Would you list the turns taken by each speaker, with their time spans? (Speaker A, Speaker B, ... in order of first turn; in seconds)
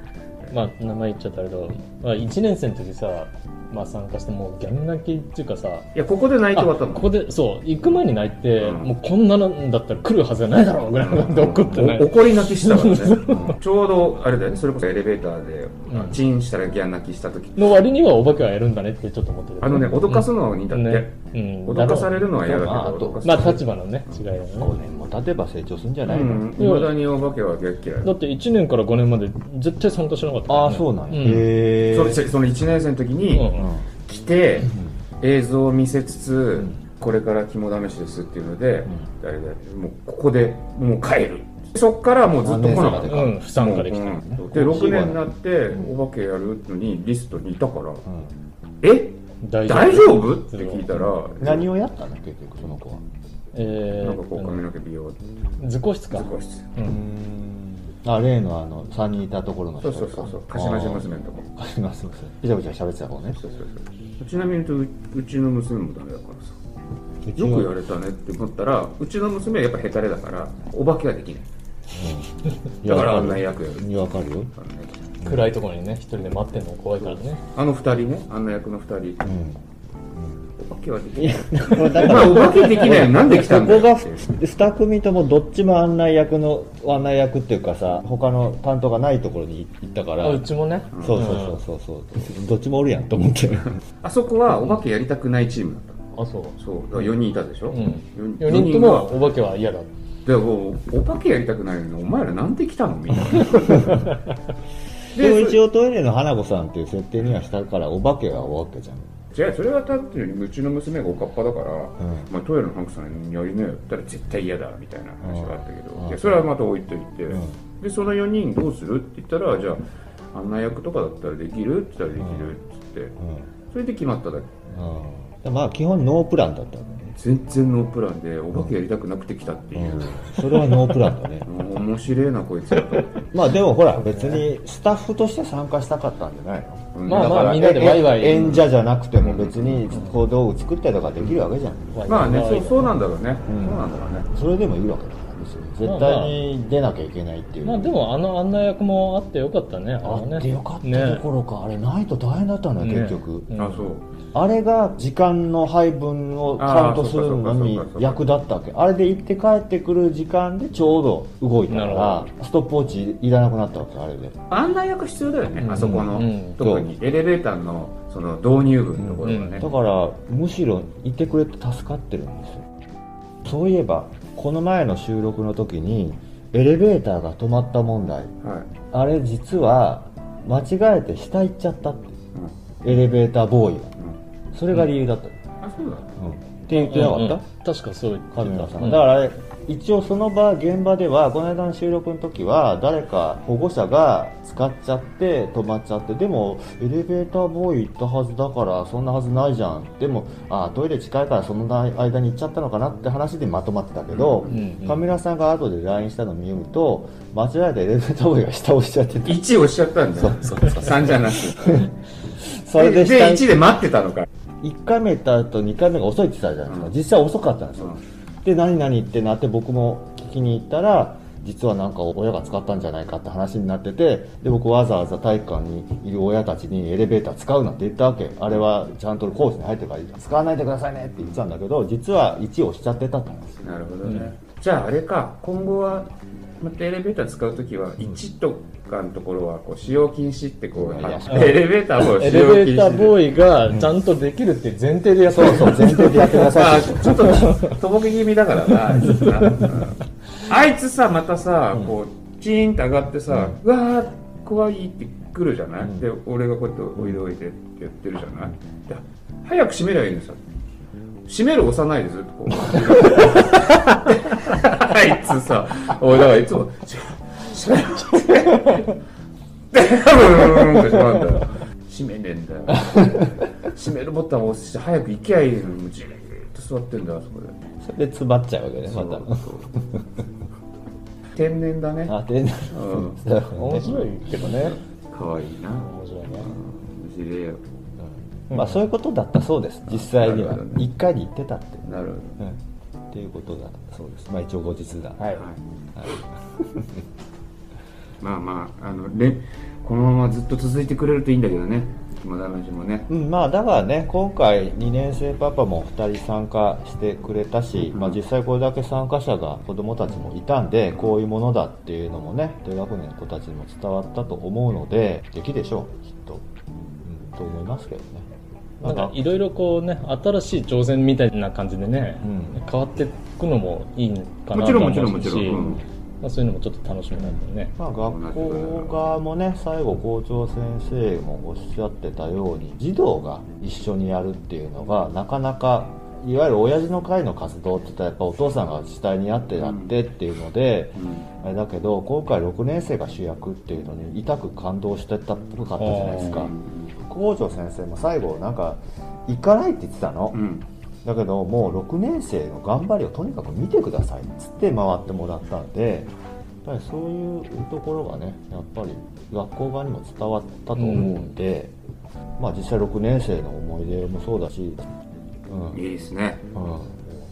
Speaker A: 0.5-5.9, 6.5-13.6, 15.9-16.2, 17.6-22.3, 23.2-24.7, 26.6-26.9, 28.0-31.5, 33.3-33.7, 42.6-44.2, 49.4-50.9, 53.5-54.7, 55.6-57.0, 75.2-77.4, 90.2-91.6, 96.2-96.5, 97.7-99.9, 133.9-134.5, 137.1-138.7, 141.9-142.9, 145.8-146.4, 147.6-151.2, 152.8-153.9, 161.7-162.3, 165.6-166.6, 169.2-169.7, 186.7-189.0, 204.5-205.1, 234.0-234.3, 241.3-246.7, 283.5-284.8, 285.8-286.5, 288.5-288.8, 295.2-295.4, 318.8-327.7, 345.8-346.5, 360.8-361.3
Speaker B: 5.9-7.2, 8.6-8.9, 11.0-17.8, 19.6-24.3, 26.0-28.1, 31.9-48.0, 48.8-51.7, 54.0-55.2, 56.1-56.7, 59.8-61.5, 63.3-66.6, 67.3-71.4, 72.8-75.0, 77.0-79.2, 80.6-84.3, 90.9-91.2, 94.0-96.0, 96.6-99.2, 100.2-104.0, 105.1-105.6, 109.3-123.1, 123.7-124.5, 127.1-130.8, 131.4-133.2, 136.9-137.8, 138.4-139.9, 142.1-144.3, 153.6-154.0, 156.6-158.2, 164.5-169.7, 178.4-178.7, 185.6-186.1, 204.1-204.6, 209.2-211.9, 212.8-214.3, 216.7-216.9, 233.6-236.1, 236.6-243.2, 246.3-260.4, 261.2-268.9, 269.7-277.6, 278.9-279.7, 281.3-282.1, 282.7-283.2, 284.4-287.6, 289.9-290.9, 291.8-292.4, 298.2-303.1, 307.9-308.2, 324.5-325.8, 328.0-329.0, 339.6-339.9, 341.0-341.2, 346.2-346.9, 350.3-350.6, 365.7-366.4
Speaker C: 22.4-23.6, 24.6-26.5, 30.5-32.2, 33.5-33.9, 34.7-34.9, 42.4-43.4, 44.2-45.9, 48.0-48.3, 50.9-53.0, 56.8-63.4, 67.2-67.7, 71.9-74.5, 75.2-75.5, 79.2-79.6, 80.1-80.5, 81.2-93.8, 105.1-109.1, 112.0-112.3, 115.2-116.5, 122.2-122.5, 123.2-123.5, 124.7-127.1, 129.7-131.5, 133.2-142.0, 143.5-148.0, 150.0-153.5, 154.3-164.4, 165.6-166.9, 169.0-172.7, 173.4-178.3, 178.9-182.2, 182.8-183.9, 184.5-185.3, 186.2-187.4, 188.3-209.4, 210.2-211.9, 212.4-213.5, 214.6-233.8, 240.7-241.7, 245.3-247.6, 249.2-249.7, 253.3-253.6, 257.0-257.2, 277.8-279.8, 282.1-284.1, 288.0-291.9, 293.1-295.3, 295.9-296.9, 303.1-318.2, 318.8-319.3, 322.2-322.6, 325.5-325.8, 327.2-350.4, 351.0-356.1, 356.6-361.7, 362.4-364.8, 365.5-365.8, 366.5-367.1